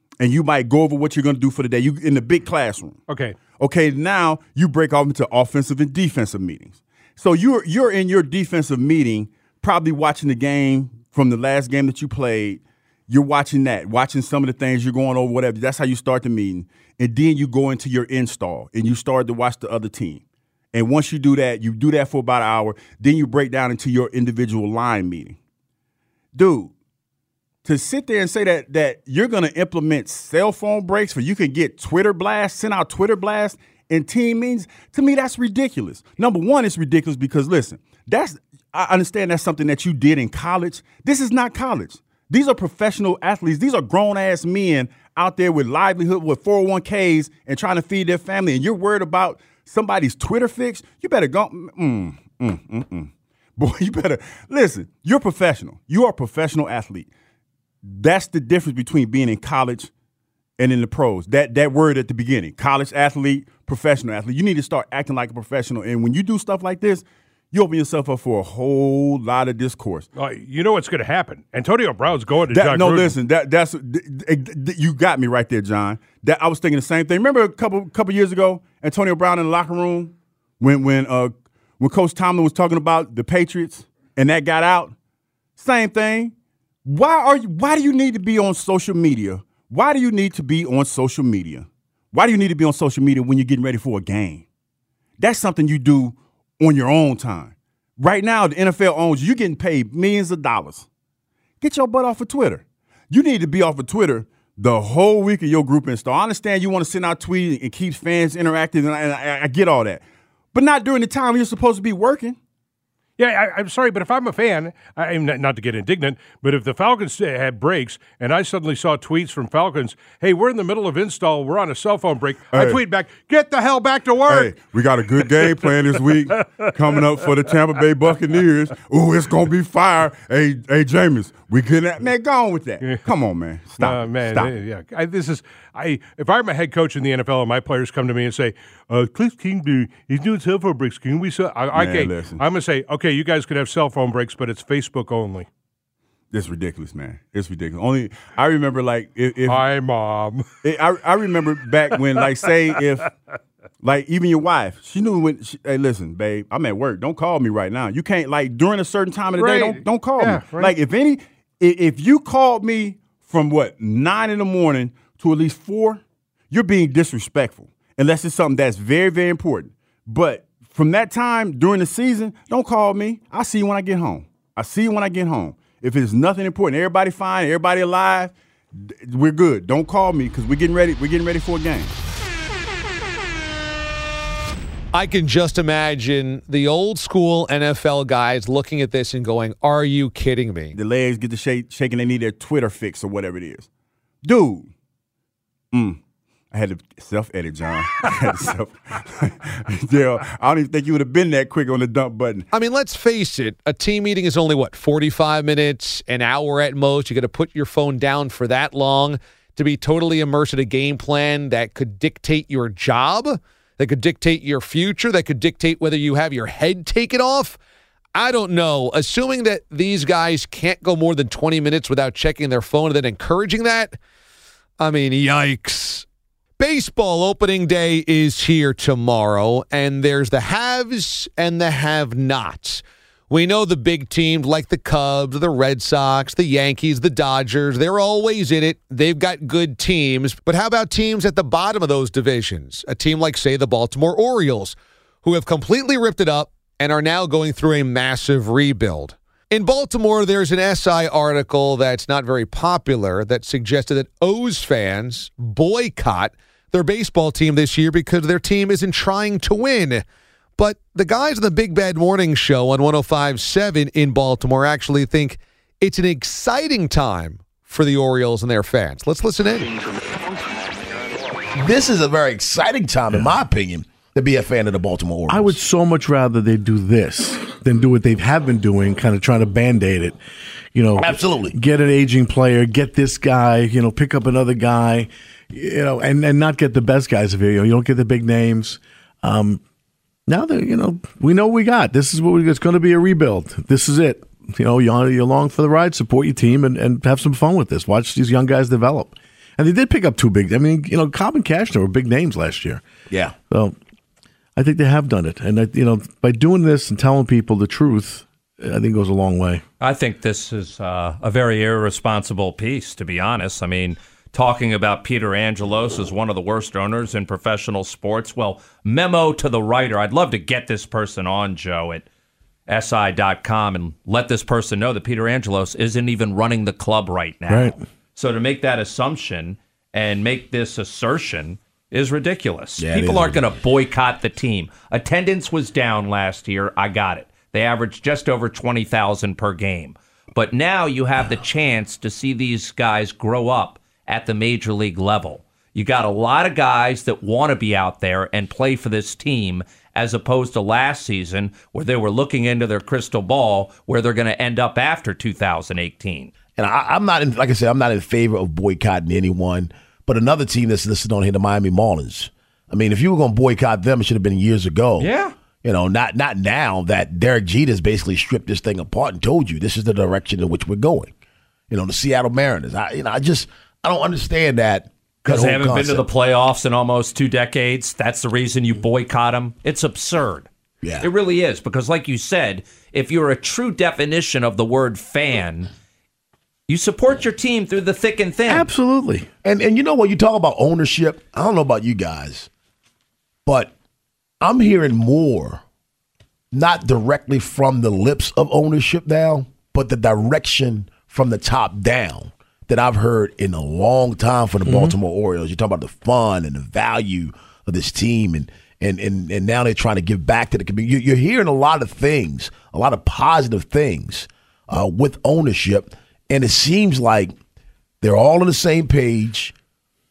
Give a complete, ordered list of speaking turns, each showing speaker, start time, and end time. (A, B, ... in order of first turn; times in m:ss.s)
0:00.2-0:03.0 A
0:03.1-0:03.4 B
0:03.5-0:25.4 A
0:26.3-0:26.7 A
0:27.6-0:57.1 A
0:57.8-0:59.9 A
1:00.6-1:10.1 A
1:10.1-1:13.2 B
1:12.5-1:24.9 A
1:25.6-1:26.3 A
1:26.8-1:34.4 A
1:35.2-1:40.8 A
1:41.6-1:52.4 A
1:53.2-2:07.8 B
2:02.5-2:02.8 A
2:04.3-2:14.5 A
2:13.8-2:25.5 B
2:21.7-2:22.4 A
2:26.3-2:29.6 A
2:29.4-2:30.4 B
2:30.6-2:33.0 A
2:31.8-2:33.1 B
2:33.8-3:01.9 A
2:39.3-2:40.8 B
3:04.9-3:10.8 C
3:10.7-3:13.7 A
3:14.2-3:14.7 A
3:15.7-3:16.0 A
3:16.5-3:22.5 A
3:22.5-3:37.6 C
3:38.1-3:44.0 C
3:44.8-3:46.0 C
3:46.6-4:20.0 C
4:20.6-4:29.7 C
4:31.6-4:35.6 D
4:35.3-4:40.2 E
4:40.7-4:49.6 E
4:41.0-4:41.6 D
4:50.3-5:02.8 E
5:03.1-5:03.3 D
5:03.5-5:03.8 E
5:04.6-5:09.6 E
5:09.8-5:22.0 F
5:22.7-5:56.3 F
5:27.5-5:27.8 E
5:32.8-5:33.4 D
5:56.6-6:05.1 D
6:05.0-6:05.3 F
6:05.6-6:11.1 D
6:11.7-6:16.0 D
6:15.2-6:20.5 F
6:20.8-6:21.1 D
6:21.0-6:25.7 F
6:26.7-6:28.7 F
6:28.5-6:29.3 E
6:29.4-6:32.5 D
6:33.4-6:33.7 D
6:34.4-6:35.6 D
6:36.5-6:57.3 D
6:44.7-6:44.9 E
6:58.0-6:59.5 D